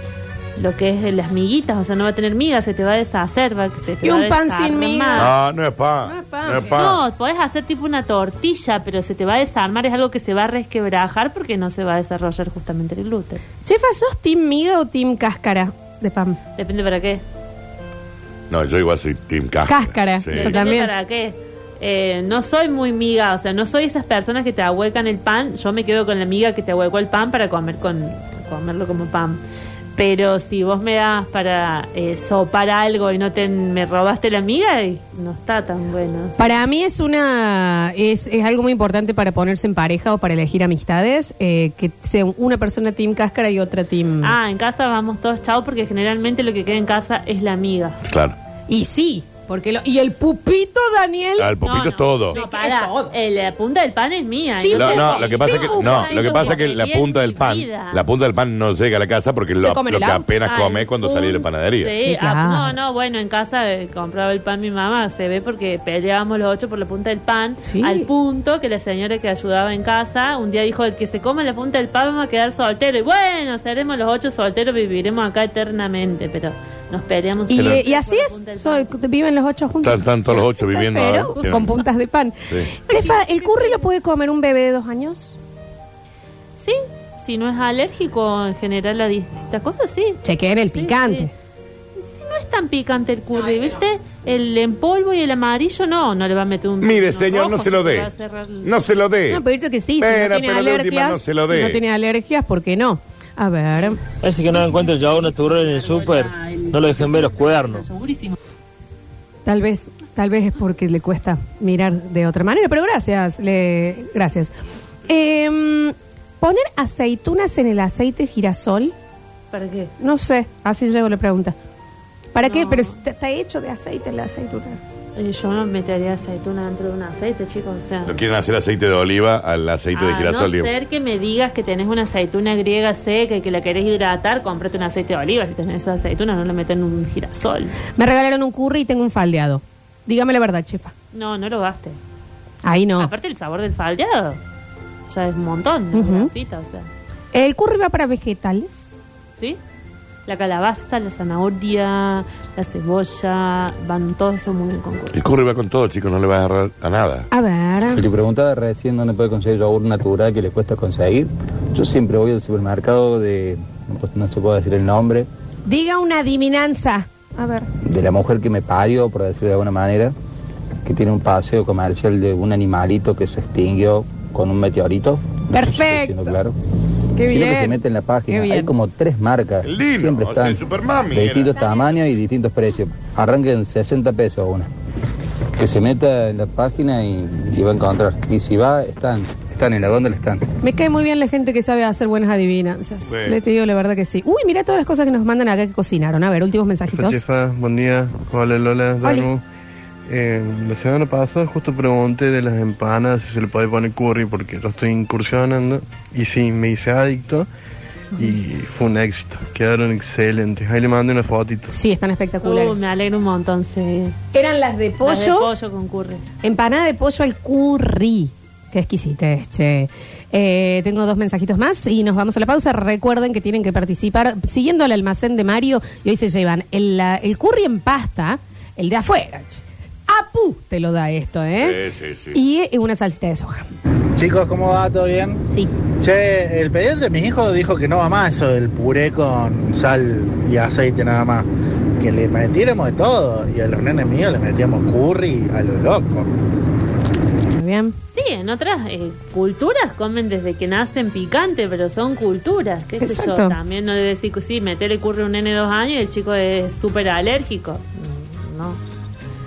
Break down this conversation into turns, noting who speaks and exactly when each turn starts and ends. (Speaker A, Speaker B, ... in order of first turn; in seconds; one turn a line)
Speaker A: 0.6-5.3
Speaker B: 4.0-5.3
Speaker C: 5.2-7.0
Speaker B: 6.0-6.8
Speaker A: 6.7-13.4
Speaker B: 13.6-16.4
Speaker A: 16.6-17.2
Speaker C: 18.5-20.5
Speaker B: 19.7-20.9
Speaker A: 20.4-29.4
Speaker A: 30.0-36.4
Speaker B: 36.4-44.4
Speaker A: 44.2-48.0
Speaker C: 48.0-48.4
Speaker B: 48.7-51.5
Speaker C: 51.4-52.4
Speaker A: 51.6-58.0
Speaker B: 52.3-53.2
Speaker B: 54.6-56.6
Speaker C: 54.7-62.0
Speaker B: 59.6-60.3
Speaker A: 60.5-78.9
Speaker B: 62.0-62.8
Speaker B: 67.6-68.1
Speaker B: 77.5-85.4
Speaker C: 77.5-77.8
Speaker C: 79.8-81.8
Speaker A: 81.4-81.7
Speaker A: 86.6-90.2
Speaker B: 90.2-91.3
Speaker A: 90.7-91.3
Speaker A: 92.0-98.7
Speaker C: 96.8-98.1
Speaker C: 98.6-99.4
Speaker B: 99.3-104.0
Speaker C: 100.0-101.8
Speaker D: 104.1-107.9
Speaker B: 109.5-114.5
Speaker B: 115.1-118.9
Speaker A: 119.5-119.9
Speaker B: 120.0-121.6
Speaker B: 122.3-124.8
Speaker A: 122.4-122.9
Speaker A: 125.2-128.1
Speaker C: 128.1-130.7
Speaker A: 129.9-137.8
Speaker B: 137.9-140.9
Speaker A: 141.1-142.0
Speaker B: 142.6-143.1
Speaker A: 143.0-144.4
Speaker A: 145.1-146.9
Speaker B: 145.9-146.3
Speaker B: 147.3-148.9
Speaker A: 150.3-155.2
Speaker C: 155.1-157.3
Speaker B: 157.3-158.0
Speaker E: 157.9-165.3
Speaker B: 165.7-167.7
Speaker E: 167.8-170.1
Speaker E: 170.8-176.5
Speaker B: 175.5-176.3
Speaker B: 177.2-178.7
Speaker E: 177.2-184.7
Speaker C: 179.6-181.7
Speaker B: 181.6-181.9
Speaker E: 185.6-190.4
Speaker B: 190.6-197.2
Speaker C: 193.0-193.4
Speaker F: 196.9-199.4
Speaker B: 199.0-199.3
Speaker F: 200.1-207.5
Speaker F: 208.2-211.7
Speaker B: 211.7-212.8
Speaker A: 212.4-214.2
Speaker B: 214.3-215.5
Speaker A: 215.0-216.3
Speaker B: 216.4-231.8
Speaker C: 231.6-232.4
Speaker B: 232.3-233.7
Speaker G: 234.2-235.4
Speaker G: 236.0-241.5
Speaker G: 242.0-246.3
Speaker B: 247.6-248.0
Speaker A: 248.1-258.8
Speaker B: 253.0-253.6